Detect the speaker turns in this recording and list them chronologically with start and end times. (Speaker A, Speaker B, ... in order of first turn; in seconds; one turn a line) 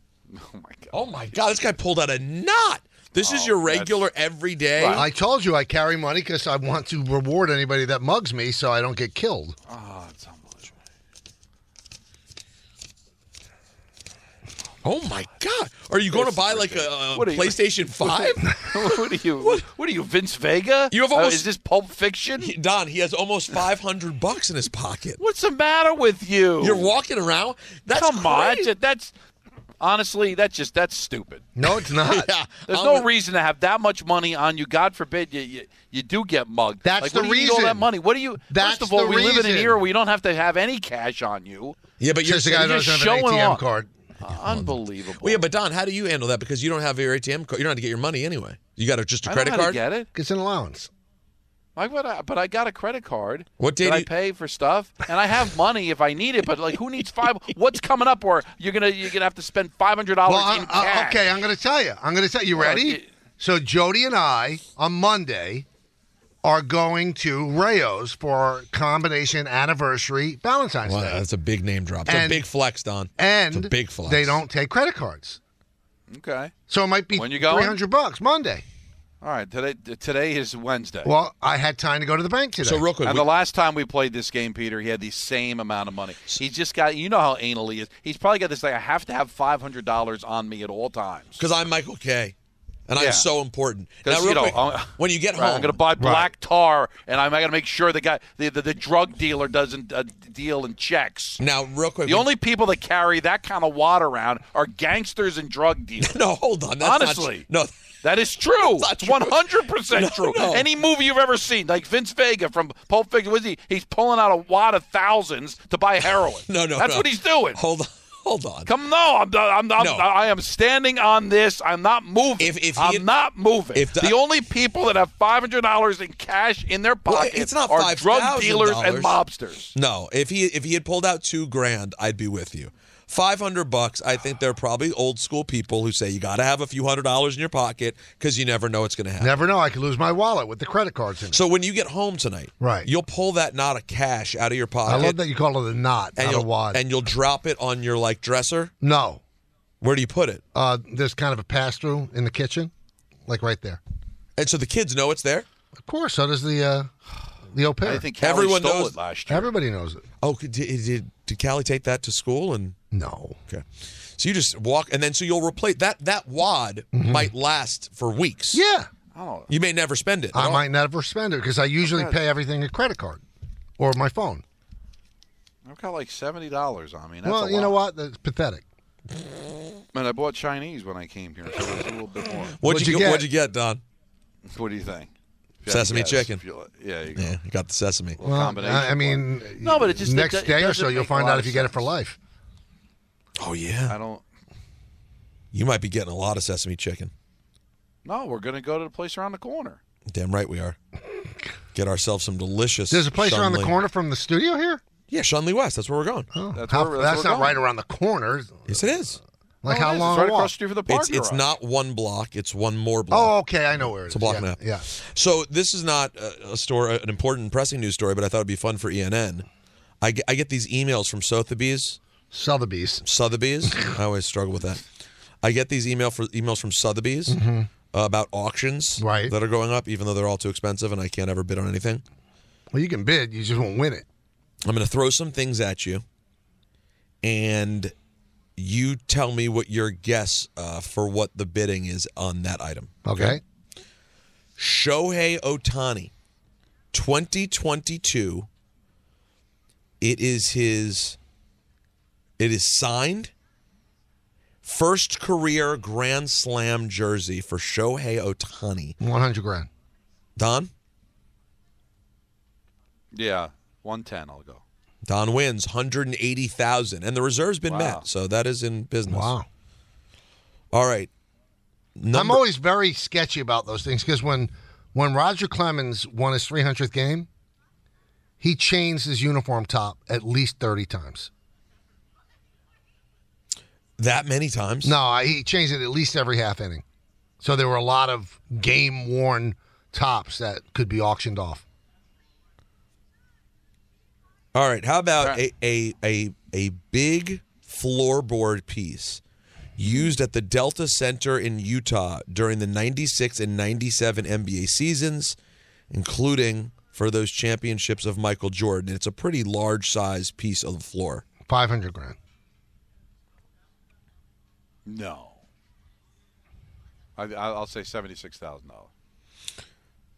Speaker A: 0.3-1.1
Speaker B: 0.9-5.1
Speaker A: 3.1-4.1
Speaker A: 4.7-5.1
Speaker C: 4.9-9.6
Speaker A: 9.7-10.7
Speaker B: 14.8-19.6
Speaker A: 16.1-22.5
Speaker B: 20.9-21.5
Speaker B: 22.4-25.2
Speaker A: 25.2-26.9
Speaker B: 26.6-28.7
Speaker A: 27.9-29.1
Speaker A: 29.8-31.4
Speaker C: 31.6-32.3
Speaker B: 31.9-33.1
Speaker A: 32.7-41.8
Speaker C: 36.8-37.9
Speaker C: 38.5-39.8
Speaker B: 42.0-42.9
Speaker C: 42.2-43.9
Speaker A: 42.5-43.6
Speaker A: 44.2-45.4
Speaker B: 44.3-49.8
Speaker A: 49.2-50.1
Speaker C: 50.1-50.9
Speaker A: 51.8-61.3
Speaker B: 53.6-54.1
Speaker C: 60.2-65.7
Speaker A: 62.5-63.1
Speaker C: 66.4-71.2
Speaker B: 70.8-74.4
Speaker C: 72.0-72.5
Speaker C: 73.2-75.4
Speaker A: 76.1-76.5
Speaker C: 76.7-78.6
Speaker A: 77.1-77.8
Speaker A: 79.2-81.1
Speaker C: 81.0-82.8
Speaker B: 82.6-83.3
Speaker A: 83.0-91.4
Speaker B: 91.4-92.3
Speaker B: 92.9-95.8
Speaker A: 93.0-93.3
Speaker A: 94.0-101.4
Speaker C: 96.0-96.3
Speaker B: 101.4-102.3
Speaker A: 102.0-106.2
Speaker B: 106.0-107.7
Speaker A: 106.8-107.5
Speaker A: 108.0-117.6
Speaker B: 108.6-110.7
Speaker B: 116.5-118.7
Speaker A: 118.7-129.7
Speaker B: 119.8-120.1
Speaker B: 122.4-123.1
Speaker B: 123.7-124.2
Speaker B: 127.1-129.2
Speaker B: 129.7-139.3
Speaker C: 139.2-141.4
Speaker B: 141.3-145.2
Speaker C: 142.6-142.9
Speaker C: 144.8-146.8
Speaker B: 146.2-148.7
Speaker C: 148.8-149.2
Speaker B: 149.8-150.4
Speaker C: 150.5-152.7
Speaker C: 153.3-153.8
Speaker B: 154.4-155.5
Speaker C: 155.7-156.9
Speaker C: 157.5-158.1
Speaker A: 157.8-159.5
Speaker B: 158.2-159.0
Speaker C: 159.3-160.0
Speaker B: 160.2-162.8
Speaker C: 162.9-163.4
Speaker B: 164.2-168.6
Speaker C: 166.9-167.3
Speaker C: 168.5-168.9
Speaker A: 169.1-169.5
Speaker B: 169.5-170.6
Speaker C: 170.3-173.2
Speaker A: 171.9-172.2
Speaker C: 173.8-174.4
Speaker A: 175.7-177.8
Speaker C: 177.2-178.6
Speaker A: 179.9-182.6
Speaker B: 182.6-183.8
Speaker C: 182.6-183.3
Speaker A: 184.5-185.1
Speaker A: 185.6-187.4
Speaker B: 185.7-186.4
Speaker B: 187.1-188.2
Speaker A: 188.2-191.9
Speaker C: 188.2-192.2
Speaker B: 193.4-194.0
Speaker A: 193.9-194.2
Speaker B: 195.5-197.1
Speaker A: 198.0-199.8
Speaker B: 200.1-200.8
Speaker B: 201.7-203.7
Speaker C: 202.9-204.8
Speaker B: 205.1-206.3
Speaker C: 206.3-208.9
Speaker A: 206.5-207.6
Speaker B: 208.7-209.2
Speaker C: 209.6-210.5
Speaker A: 209.6-211.5
Speaker B: 210.9-213.3
Speaker C: 213.1-214.8
Speaker B: 214.1-219.5
Speaker B: 220.0-222.0
Speaker C: 222.3-223.0
Speaker B: 223.0-224.8
Speaker C: 223.6-223.9
Speaker B: 225.4-227.4
Speaker C: 227.3-227.7
Speaker B: 227.9-232.0
Speaker C: 229.0-229.3
Speaker C: 232.7-234.1
Speaker B: 234.6-236.0
Speaker B: 237.2-237.9
Speaker B: 238.6-243.4
Speaker C: 243.0-243.4
Speaker B: 244.6-246.1
Speaker B: 246.9-248.5
Speaker B: 250.0-251.2
Speaker B: 252.4-253.3
Speaker B: 254.6-259.0
Speaker C: 259.0-259.7
Speaker B: 260.4-260.7
Speaker A: 263.1-264.6
Speaker B: 265.1-269.3
Speaker A: 267.7-268.0
Speaker C: 269.1-269.5
Speaker B: 270.7-271.1
Speaker B: 271.9-272.4
Speaker C: 272.1-277.3
Speaker C: 278.4-281.3
Speaker B: 284.0-284.9
Speaker C: 284.8-286.8
Speaker C: 287.4-291.6
Speaker B: 294.5-299.2
Speaker B: 299.8-305.4
Speaker A: 299.8-300.1
Speaker B: 305.9-311.2
Speaker C: 311.4-312.2
Speaker A: 314.9-315.4
Speaker A: 317.2-318.9